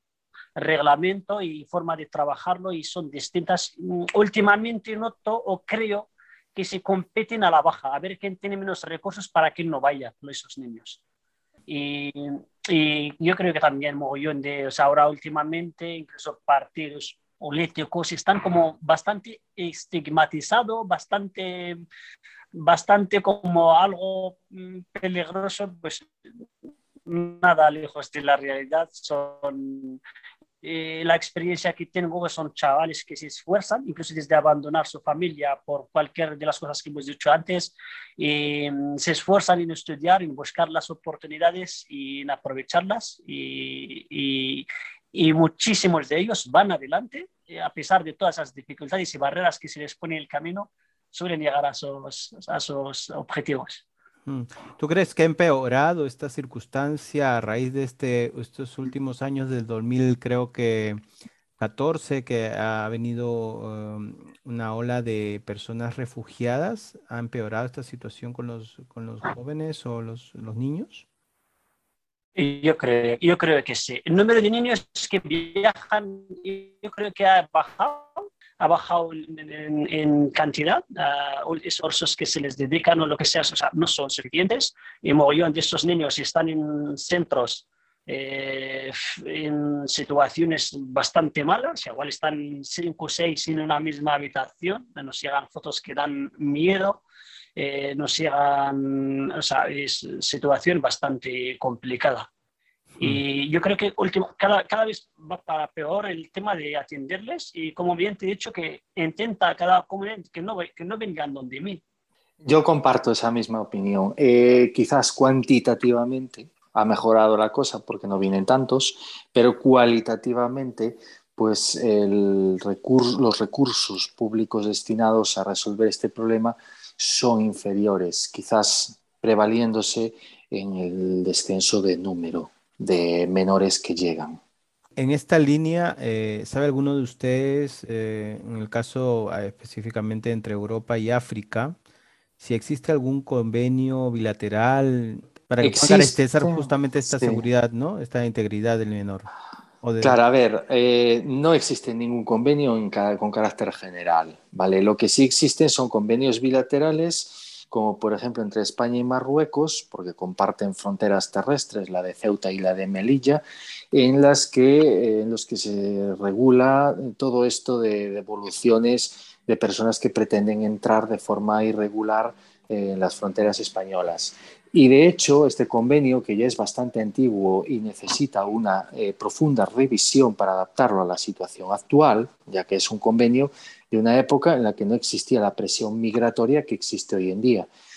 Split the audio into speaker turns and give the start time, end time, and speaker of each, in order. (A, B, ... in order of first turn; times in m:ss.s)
0:00.6-0:11.0 A
0:11.7-0:21.8 A
0:22.5-0:26.1 A
0:27.0-0:30.0 A
0:30.6-0:53.8 A
0:54.3-1:01.0 B
1:01.6-1:11.0 B
1:12.4-1:37.0 A
1:37.6-1:42.3 A
1:43.0-1:51.8 A
1:52.4-2:14.4 C
2:15.0-2:21.8 B
2:22.4-2:29.3 B
2:25.6-2:27.4 C
2:29.8-2:30.2 B
2:30.0-3:07.7 C